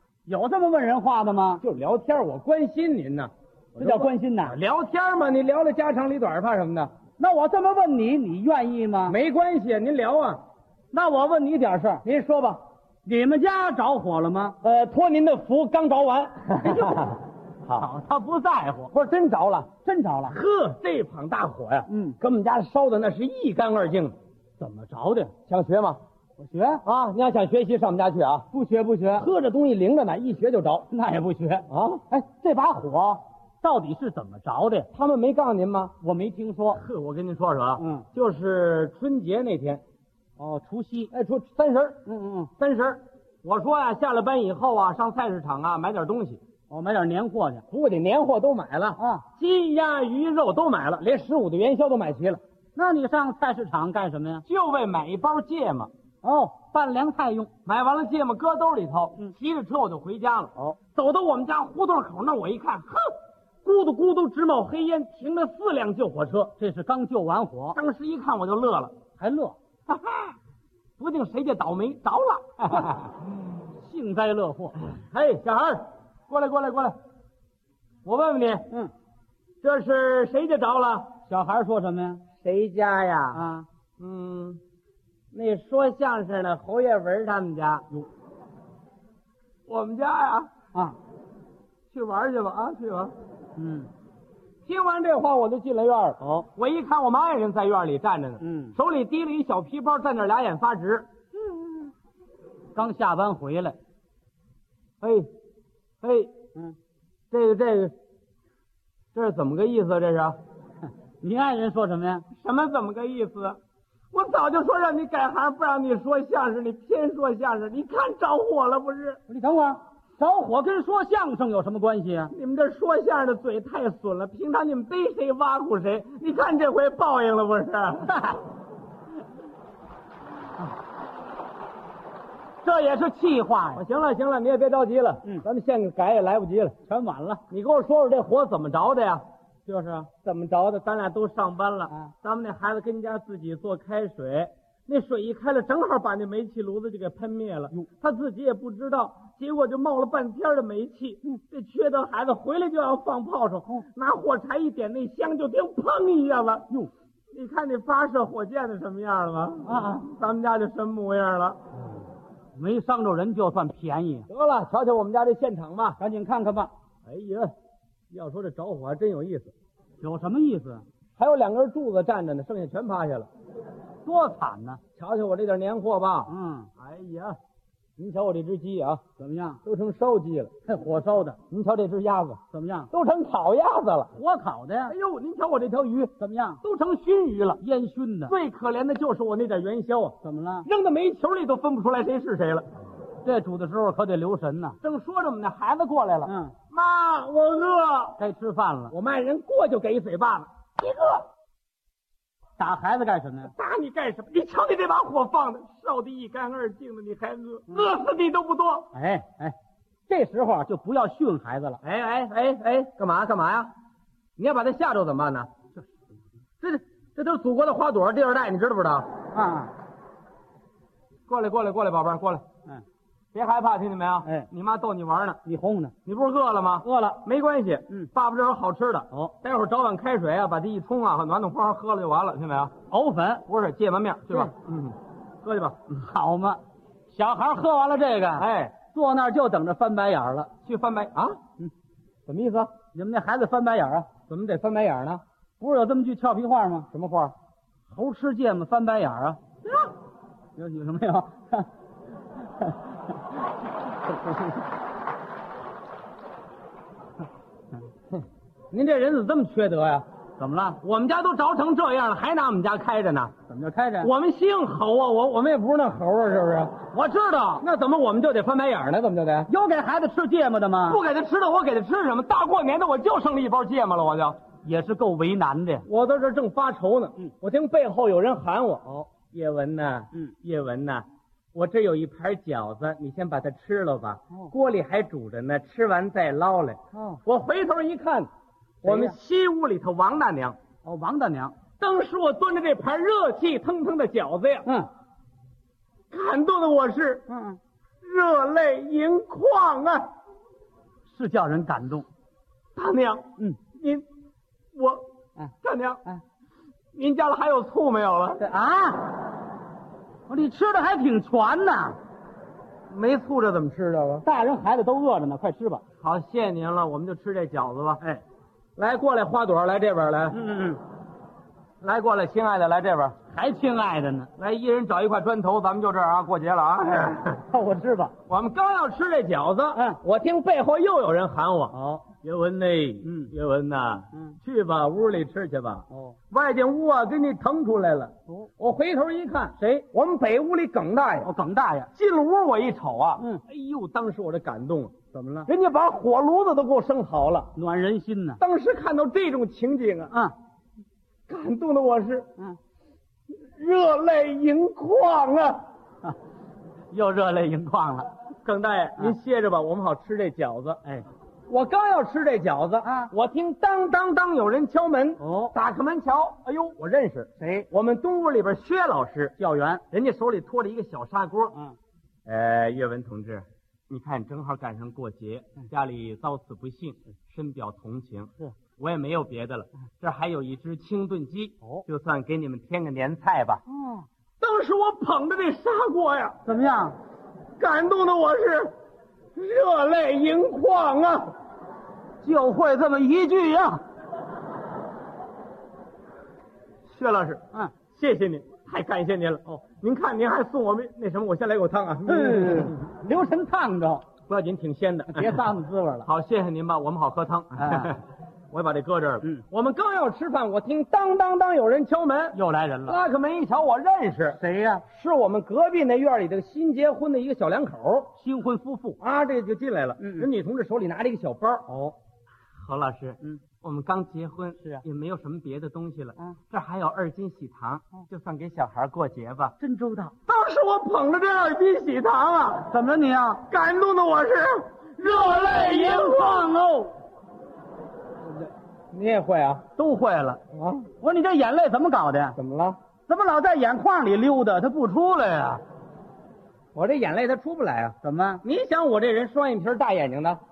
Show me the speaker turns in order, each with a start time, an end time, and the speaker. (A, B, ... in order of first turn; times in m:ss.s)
0:00.3-0:01.6 A
0:01.6-0:06.9 B
0:03.8-0:04.6 A
0:07.2-0:09.2 A
0:09.1-0:10.4 B
0:10.9-0:12.0 A
0:12.0-0:12.6 B
0:13.0-0:14.6 A
0:14.6-0:17.8 B
0:17.8-0:18.9 A
0:18.9-0:19.7 B
0:19.8-0:20.4 A
0:20.3-0:24.1 B
0:21.9-0:22.2 A
0:24.6-0:25.3 A
0:25.4-0:26.0 B
0:26.4-0:26.8 A
0:26.8-0:28.5 B
0:28.5-0:29.3 A
0:29.2-0:30.9 B
0:30.9-0:34.9 A
0:31.7-0:32.0 B
0:34.9-0:35.9 B
0:36.0-0:36.8 A
0:36.7-0:39.8 B
0:37.8-0:38.1 A
0:40.4-0:41.1 A
0:41.1-0:42.0 B
0:42.0-0:42.5 A
0:42.6-0:46.4 B
0:46.7-0:47.6 A
0:47.7-0:52.4 B
0:49.0-0:49.2 A
0:52.8-0:54.4 A
0:54.4-0:55.9 B
0:56.2-0:57.5 A
0:57.6-1:06.5 B
1:06.6-1:07.8 A
1:07.7-1:08.9 B
1:09.2-1:09.6 A
1:09.9-1:10.4 B
1:11.0-1:13.1 B
1:12.7-1:13.1 A
1:13.8-1:14.8 A
1:14.8-1:16.9 B
1:18.0-1:18.7 B
1:19.6-1:21.1 B
1:21.3-1:22.2 A
1:22.4-1:23.4 B
1:23.3-1:23.6 A
1:24.0-1:24.6 B
1:25.3-1:28.0 B
1:29.7-1:30.5 B
1:31.9-1:33.1 B
1:33.6-1:33.9 A
1:34.6-1:41.1 B
1:38.4-1:38.7 A
1:41.4-1:41.9 A
1:42.7-1:43.8 A
1:45.0-1:45.3 B
1:46.0-1:46.3 B
1:47.3-1:47.9 B
1:49.1-1:50.4 B
1:51.2-1:52.2 A
1:52.3-1:53.6 B
1:54.1-1:59.2 B
1:59.3-2:02.3 A
2:02.3-2:08.3 B
2:12.6-2:13.8 A
2:13.7-2:16.8 B
2:16.9-2:17.4 A
2:17.5-2:36.7 B
2:37.3-2:41.6 B
2:39.6-2:40.0 A
2:42.5-2:44.3 A
2:44.3-2:46.0 B
2:46.0-2:46.7 A
2:47.0-2:47.5 B
2:48.1-2:49.5 B
2:50.0-2:50.8 A
2:51.2-2:53.3 B
2:54.0-2:54.8 A
2:55.0-2:57.4 B
2:56.3-2:56.7 A
2:58.0-2:59.0 B
2:59.2-2:59.6 A
2:59.6-3:00.5 B
3:00.6-3:01.4 A
3:01.5-3:02.4 B
3:02.5-3:02.9 A
3:02.9-3:04.1 B
3:04.1-3:04.9 A
3:04.9-3:07.6 B
3:06.2-3:06.6 A
3:07.6-3:08.3 A
3:08.3-3:12.6 B
3:10.2-3:10.7 A
3:13.2-3:14.8 A
3:14.8-3:18.2 B
3:16.2-3:16.5 A
3:18.2-3:18.9 A
3:18.9-3:21.2 B
3:22.6-3:23.5 A
3:23.5-3:28.9 B
3:28.9-3:29.6 A
3:30.1-3:31.8 A
3:31.8-3:33.7 B
3:34.4-3:35.5 B
3:36.6-3:39.1 B
3:39.3-3:39.7 A
3:41.3-3:42.4 B
3:43.3-3:45.4 B
3:45.4-3:45.9 A
3:46.0-3:52.7 B
3:46.8-3:47.2 A
3:52.9-3:53.4 A
3:53.4-3:55.9 B
3:55.9-4:00.5 A
3:58.4-3:58.8 B
4:00.6-4:01.4 B
4:02.3-4:02.7 B
4:02.9-4:04.1 A
4:04.3-4:05.2 B
4:05.6-4:06.9 A
4:06.9-4:07.3 B
4:07.9-4:09.4 A
4:10.6-4:11.7 A
4:12.4-4:13.0 A
4:18.7-4:20.0 B
4:20.4-4:20.8 A
4:20.8-4:23.3 B
4:23.5-4:24.1 A
4:24.0-4:26.8 B
4:26.9-4:27.6 A
4:27.6-4:29.5 B
4:29.5-4:31.0 A
4:30.9-4:34.4 B
4:34.6-4:35.8 A
4:35.9-4:48.3 B
4:46.9-4:47.2 A
4:48.8-4:49.2 A
4:48.8-4:50.6 B
4:50.8-4:51.5 A
4:51.8-4:54.7 B
4:56.1-4:57.3 B
4:57.3-4:57.6 A
4:58.0-5:00.1 B
5:01.1-5:02.0 A
5:02.8-5:04.0 B
5:04.7-5:05.0 B
5:05.6-5:06.0 B
5:06.9-5:08.4 B
5:08.4-5:09.2 A
5:10.3-5:12.0 A
5:12.9-5:14.2 B
5:14.2-5:15.8 A
5:16.0-5:18.0 B
5:18.8-5:20.4 B
5:20.3-5:20.8 A
5:21.8-5:23.2 B
5:23.3-5:24.3 A
5:24.4-5:27.4 B
5:27.5-5:28.1 A
5:28.3-5:41.3 B
5:29.7-5:30.0 A
5:31.7-5:32.0 A
5:33.0-5:33.3 A
5:35.9-5:36.2 A
5:41.2-5:41.9 A
5:41.9-5:47.5 B
5:45.1-5:45.5 A
5:47.5-5:48.4 A
5:48.4-5:50.1 B
5:51.3-5:52.3 B
5:53.3-5:55.6 B
5:56.9-5:58.1 A
5:58.4-6:00.8 B
6:01.5-6:09.3 B
6:02.8-6:03.1 A
6:05.2-6:05.5 A
6:07.4-6:07.7 A
6:09.4-6:09.8 A
6:09.9-6:11.6 B
6:12.2-6:23.6 B
6:23.7-6:24.1 A
6:24.4-6:26.4 B
6:26.4-6:27.0 A
6:27.6-6:28.7 B
6:29.4-6:31.3 B
6:32.2-6:33.8 A
6:36.9-6:42.8 B
6:42.0-6:44.0 A
6:44.3-6:45.4 B
6:45.1-6:46.1 A
6:46.0-6:58.1 B
6:47.6-6:47.9 A
6:52.3-6:53.0 A
6:54.4-6:54.8 A
6:58.2-6:59.0 A
6:59.0-7:01.7 B
7:00.0-7:00.3 A
7:01.7-7:02.0 A
7:02.6-7:09.5 B
7:09.6-7:10.1 A
7:10.2-7:12.7 B
7:12.7-7:13.4 A
7:13.5-7:16.5 B
7:15.0-7:17.0 A
7:18.9-7:19.6 B
7:19.8-7:20.4 A
7:20.5-7:20.9 B
7:21.0-7:22.4 A
7:22.4-7:22.8 B
7:23.1-7:25.6 A
7:26.7-7:30.4 B
7:28.0-7:28.4 A